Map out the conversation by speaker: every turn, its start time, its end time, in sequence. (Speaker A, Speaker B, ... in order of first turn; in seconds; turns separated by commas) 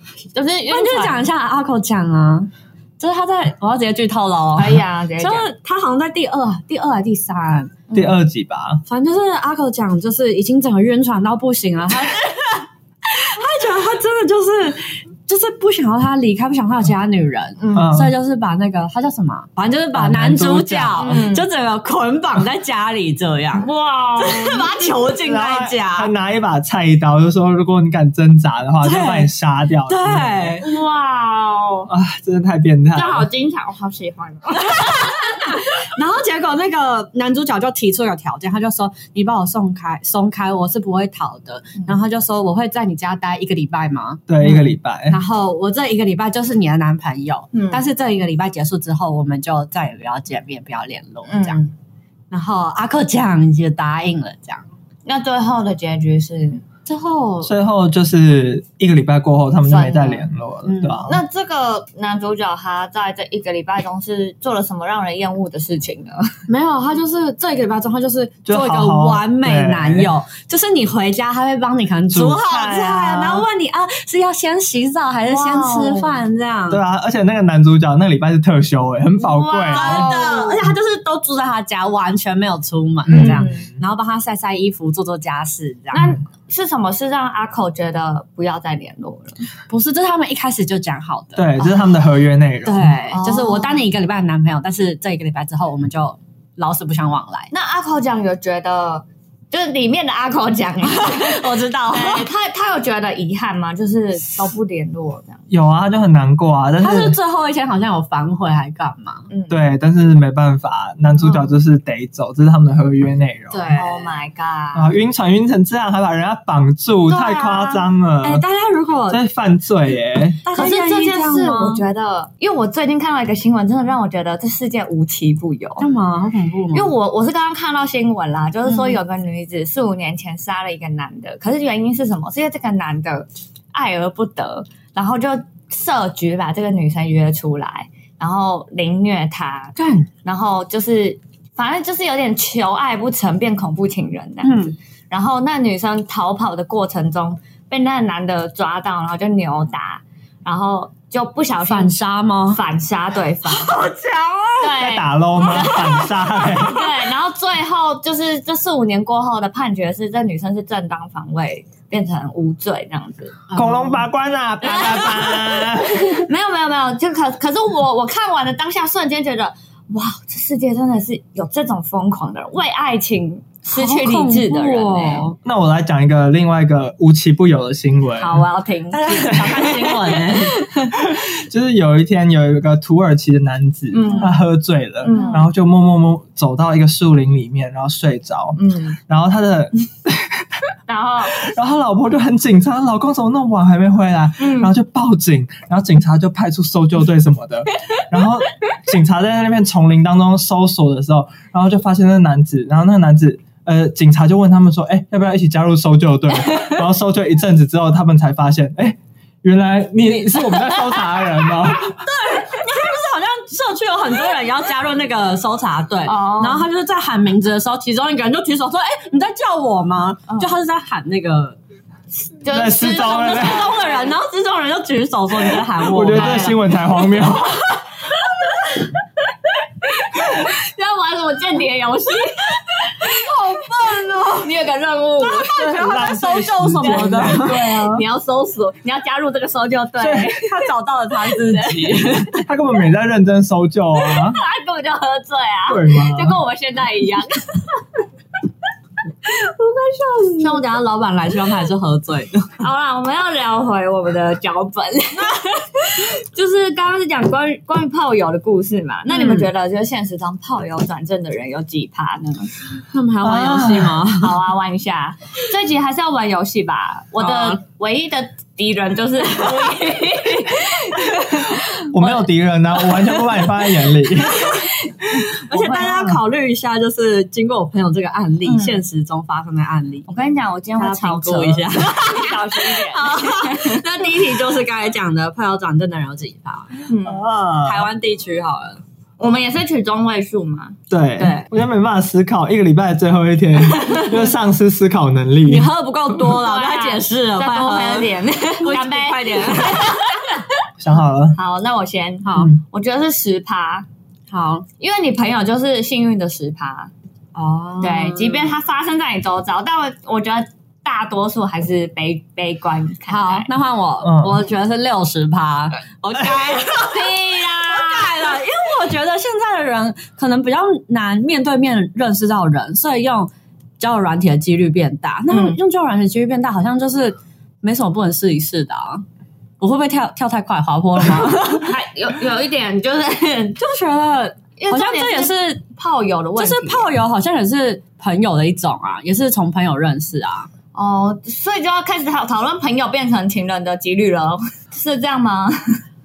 Speaker A: 0.3-1.3, Speaker B: 0.7-7.8, Speaker A: 4.6-5.5, Speaker A: 7.9-8.2, Speaker C: 7.9-8.8, Speaker B: 8.9-23.7, Speaker A: 17.6-17.9, Speaker C: 17.7-18.1, Speaker C: 19.9-21.3, Speaker A: 21.0-21.5, Speaker A: 23.6-24.9, Speaker B: 24.2-26.1, Speaker C: 25.2-30.6, Speaker B: 28.8-29.3, Speaker B: 29.9-30.6, Speaker A: 30.6-31.9, Speaker C: 31.9-33.3, Speaker A: 32.9-35.4, Speaker B: 34.7-51.6, Speaker C: 44.3-45.2, Speaker A: 47.5-47.8, Speaker A: 51.3-51.7, Speaker B: 52.3-54.6, Speaker A: 55.1-56.6, Speaker B: 56.9-57.5, Speaker C: 57.4-61.2, Speaker A: 59.7-60.3, Speaker B: 60.6-61.1, Speaker A: 61.1-66.3, Speaker B: 66.5-76.8, Speaker C: 68.5-70.1, Speaker C: 72.1-73.5, Speaker A: 75.3-76.2, Speaker C: 76.7-80.2, Speaker A: 79.2-80.6, Speaker B: 79.7-86.1, Speaker C: 83.1-83.7, Speaker A: 83.1-83.7, Speaker A: 85.9-89.4, Speaker B: 89.7-91.5, Speaker C: 91.4-92.9, Speaker B: 92.7-97.5, Speaker A: 93.1-93.8, Speaker A: 97.5-105.4, Speaker B: 100.8-102.3, Speaker C: 105.5-107.2, Speaker B: 106.8-109.3, Speaker A: 109.3-109.6, Speaker C: 109.5-113.7, Speaker B: 113.5-114.1, Speaker A: 113.7-114.9, Speaker C: 114.7-118.4, Speaker A: 117.1-117.8, Speaker B: 118.2-119.2, Speaker C: 119.1-120.4, Speaker B: 120.5-121.8, Speaker A: 120.5-125.9, Speaker B: 125.8-126.9, Speaker A: 126.7-152.0, Speaker B: 128.7-129.0, Speaker B: 139.8-140.1, Speaker B: 144.4-144.8, Speaker B: 151.7-152.6, Speaker A: 152.5-153.7, Speaker B: 153.5-154.6, Speaker A: 154.6-163.4, Speaker C: 154.7-156.9, Speaker B: 163.5-164.1, Speaker C: 163.5-166.3, Speaker A: 164.6-175.3, Speaker B: 173.7-175.4, Speaker C: 175.4-178.4, Speaker A: 178.2-179.0, Speaker B: 178.9-180.9, Speaker C: 179.1-180.1, Speaker C: 180.9-190.6, Speaker A: 183.9-184.4, Speaker A: 185.0-185.5, Speaker A: 188.6-189.0, Speaker A: 190.9-191.4, Speaker C: 191.3-212.1, Speaker A: 194.4-194.7, Speaker B: 211.9-221.6, Speaker A: 216.1-216.7, Speaker A: 220.3-220.5, Speaker A: 222.4-224.1, Speaker C: 222.5-223.7, Speaker B: 222.9-226.6, Speaker C: 225.8-227.6, Speaker A: 226.1-226.6, Speaker A: 230.0-232.9, Speaker B: 232.8-234.6, Speaker A: 234.4-236.0, Speaker B: 235.2-237.8, Speaker C: 235.6-238.0, Speaker A: 236.8-240.5, Speaker C: 240.0-240.3, Speaker B: 240.2-242.4, Speaker A: 241.4-242.2, Speaker C: 242.4-244.4, Speaker A: 244.0-247.8, Speaker C: 245.7-246.4, Speaker B: 249.3-252.5, Speaker A: 250.4-250.7, Speaker A: 252.6-262.5, Speaker B: 259.1-259.5, Speaker B: 262.9-264.4, Speaker C: 263.2-264.0, Speaker A: 264.1-272.3, Speaker B: 267.2-267.6, Speaker B: 270.8-271.6, Speaker C: 271.9-274.5, Speaker B: 273.0-273.5, Speaker B: 274.0-280.1, Speaker A: 275.1-276.2, Speaker A: 278.4-278.8, Speaker A: 280.1-283.8, Speaker B: 280.8-286.9, Speaker A: 286.9-287.2, Speaker C: 287.0-287.9, Speaker B: 287.6-288.8, Speaker A: 289.2-291.4, Speaker C: 290.9-295.7, Speaker B: 295.4-300.1, Speaker A: 296.3-300.4, Speaker C: 300.8-301.4, Speaker A: 301.4-303.9, Speaker B: 302.2-302.5, Speaker C: 302.4-302.6, Speaker B: 304.3-304.7, Speaker A: 304.8-306.9, Speaker B: 307.4-308.6, Speaker A: 307.8-313.5, Speaker B: 313.1-329.0, Speaker C: 314.0-314.4, Speaker A: 316.5-318.3, Speaker A: 325.3-325.6, Speaker B: 329.6-331.7, Speaker A: 331.6-333.6, Speaker B: 333.6-335.6, Speaker A: 334.6-336.9, Speaker B: 336.4-340.5, Speaker A: 340.7-345.8